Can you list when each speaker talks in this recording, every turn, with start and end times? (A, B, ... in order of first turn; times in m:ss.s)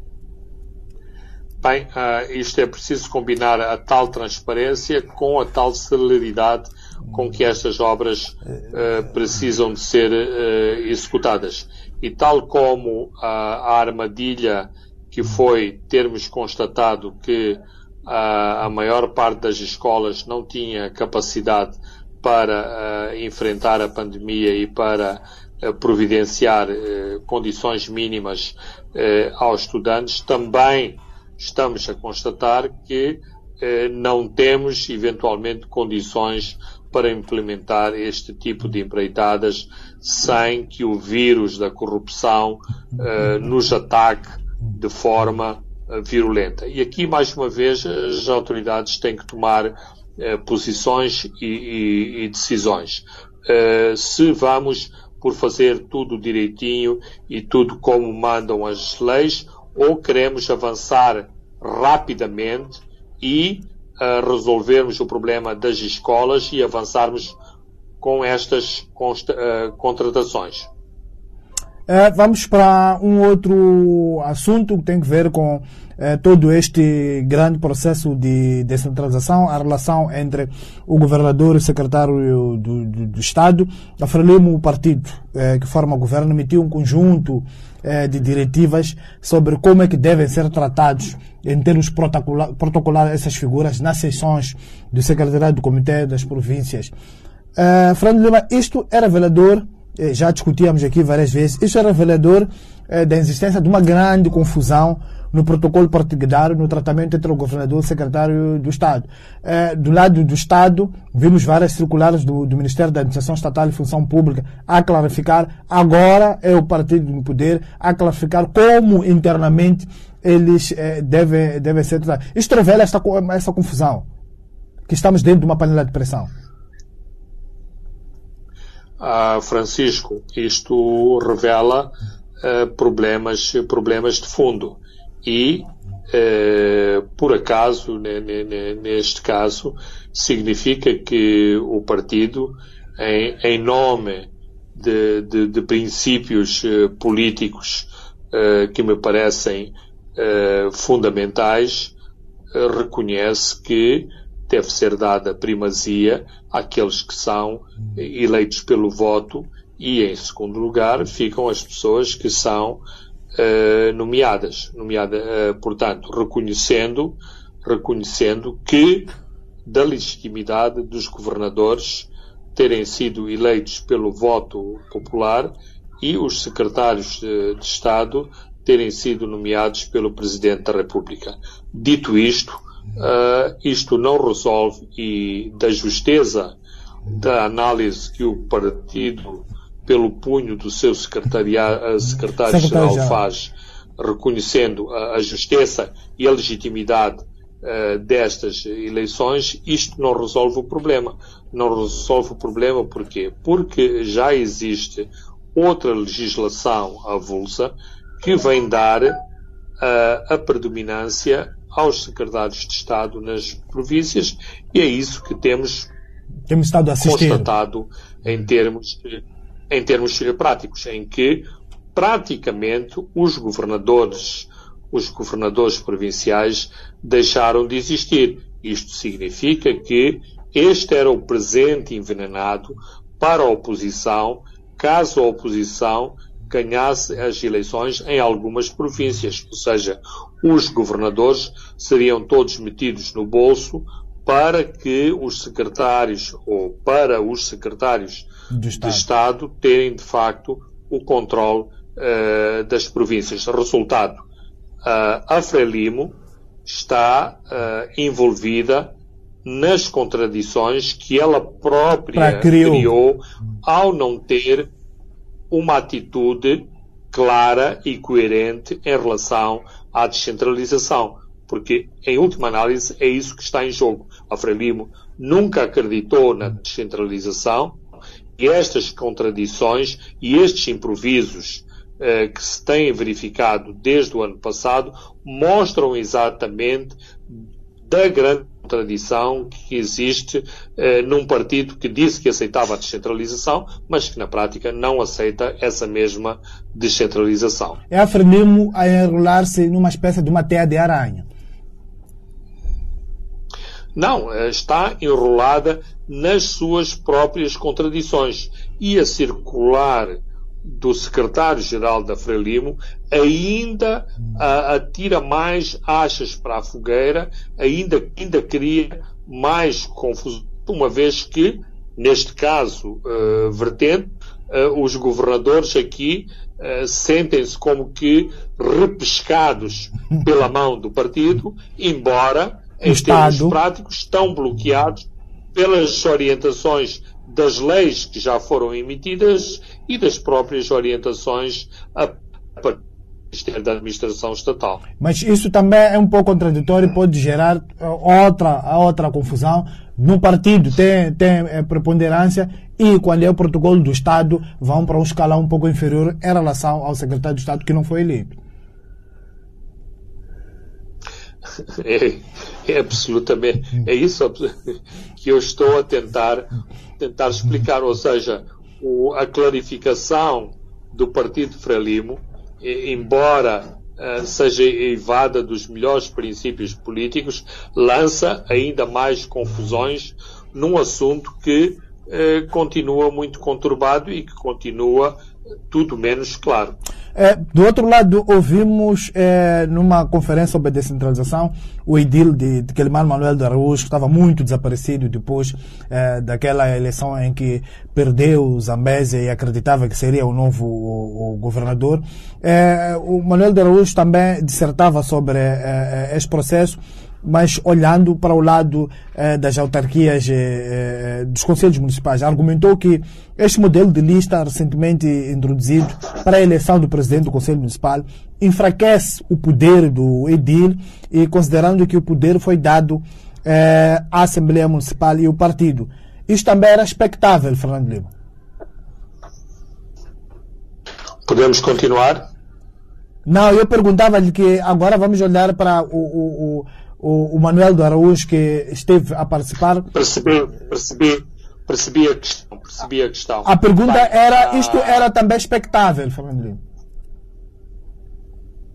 0:01.6-1:07.4 A
1:08.0-1:10.7 A
1:11.9-1:36.9 B
1:37.6-2:04.0 B
2:04.9-2:06.3 B
2:09.0-2:31.9 A
2:32.5-2:42.8 A
2:43.3-2:49.1 A
2:49.6-3:06.5 A
3:07.1-3:29.2 A
3:12.5-3:13.2 B
3:29.8-3:35.9 A
3:36.5-3:37.5 B
3:37.0-4:14.2 A
4:08.5-4:09.0 B
4:14.8-4:24.7 A
4:22.1-4:22.9 B
4:25.5-4:37.8 A
4:38.4-4:57.8 A
4:57.9-5:01.2 B
5:04.0-5:44.8 A
5:32.8-5:33.6 B
5:45.0-5:58.4 B
6:01.6-6:26.8 A
6:27.1-7:08.1 B
7:11.2-7:12.2 A
7:13.2-7:19.9 B
7:19.9-7:25.0 A
7:23.4-7:26.6 B